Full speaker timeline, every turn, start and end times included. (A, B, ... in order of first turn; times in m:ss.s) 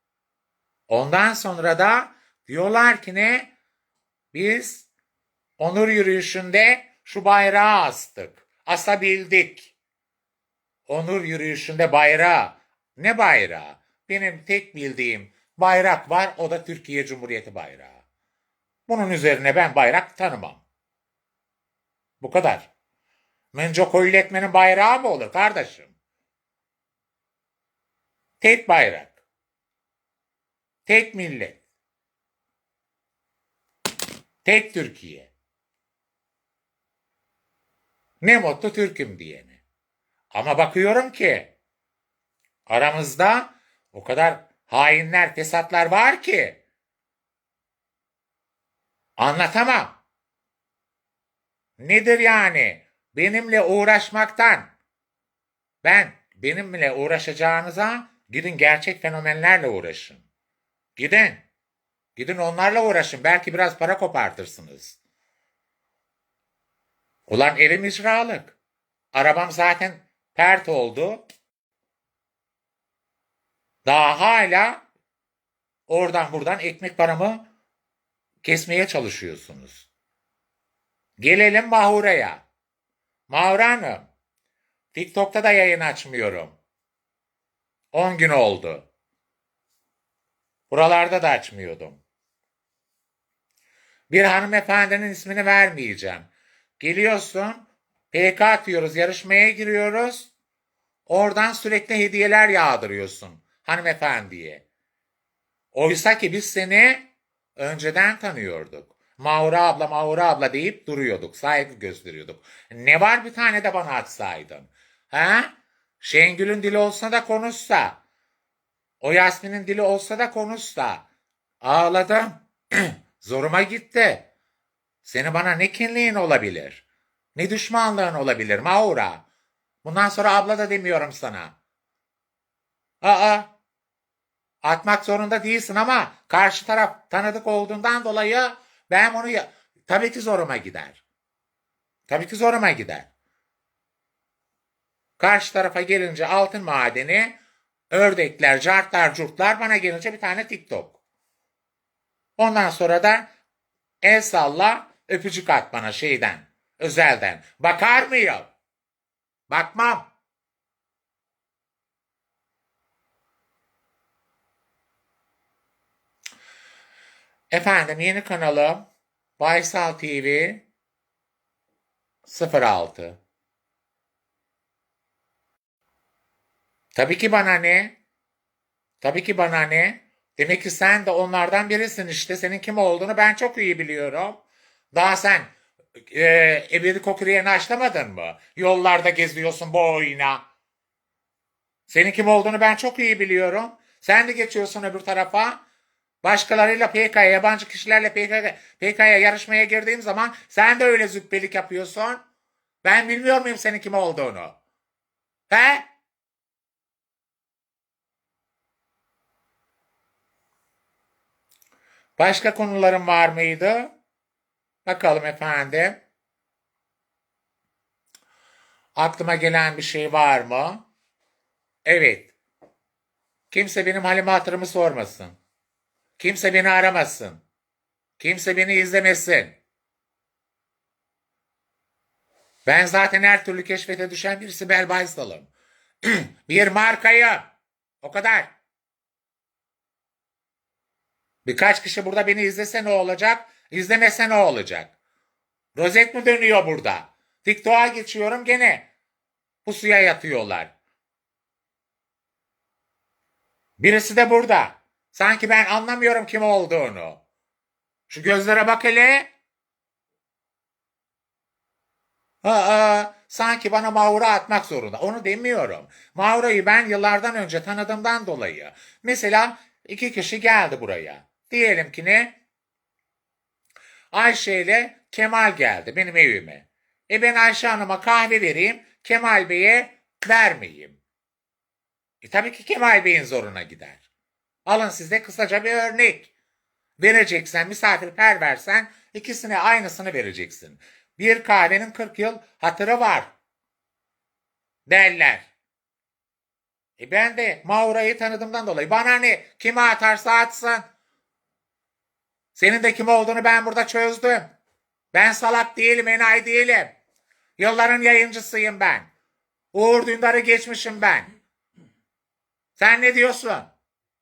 0:00.9-0:03.5 A
0:04.3-0:04.9 A
0:05.6-0:09.7 A
0:10.9-0:18.0 A
0:18.9-0:20.6 A
0:22.2-0:22.7 A
0:23.5-0:26.0 A
0:28.4-0:29.2 A
0:30.9-0:31.6 A
0:34.4-0:35.3 A
0:38.2-0:39.6 A
0:40.3-0:41.5 A
0:42.7-0:46.6 A
0:49.2-0:50.0 A
0:51.8-0:54.7 A
0:55.8-1:00.3 A
1:01.0-1:01.4 A
1:02.2-1:05.0 A
1:07.3-1:08.6 A
1:09.1-1:11.2 A
1:13.8-1:14.8 A
1:15.9-1:17.5 A
1:18.4-1:19.9 A
1:21.2-1:22.4 A
1:23.3-1:24.1 A
1:24.9-1:26.6 A
1:27.9-1:28.9 A
1:30.7-1:32.0 A
1:34.1-1:40.3 A
1:41.1-1:44.6 A
1:45.7-1:58.0 A
1:59.0-2:01.1 A
2:01.6-2:04.3 A
2:05.0-2:06.8 A
2:07.4-2:09.2 A
2:09.8-2:11.6 A
2:13.0-2:13.5 A
2:14.6-2:21.0 A
2:22.1-2:23.1 A
2:25.2-2:27.4 A
2:27.9-2:31.0 A
2:32.4-2:33.3 A
2:34.0-2:38.5 A
2:39.5-2:40.1 A
2:47.5-2:48.9 A
2:49.4-2:50.6 A
2:52.2-2:53.2 A
2:56.9-2:58.0 A
2:59.0-3:05.5 A
3:06.1-3:10.4 A
3:11.9-3:15.6 A
3:16.2-3:22.2 A
3:22.8-3:24.6 A
3:25.5-3:25.9 A
3:32.2-3:33.9 A
3:34.8-3:36.0 A
3:39.0-3:40.9 A
3:41.8-3:42.3 A
3:43.5-3:45.4 A
3:46.2-3:47.4 A
3:48.2-3:49.6 A
3:52.7-3:55.5 A
3:56.0-3:57.5 A
3:58.0-3:58.5 A
4:01.4-4:05.0 A
4:05.8-4:08.9 A
4:09.6-4:10.7 A
4:13.8-4:17.2 A
4:18.1-4:19.3 A
4:22.4-4:32.4 A
4:34.1-4:41.0 A
4:42.2-4:44.0 A
4:44.7-4:46.3 A
4:47.0-4:53.3 A
4:54.9-4:55.5 A
4:57.0-5:00.9 A
5:02.6-5:04.5 A
5:05.1-5:06.9 A
5:07.6-5:09.1 A
5:09.7-5:11.3 A
5:12.8-5:13.7 A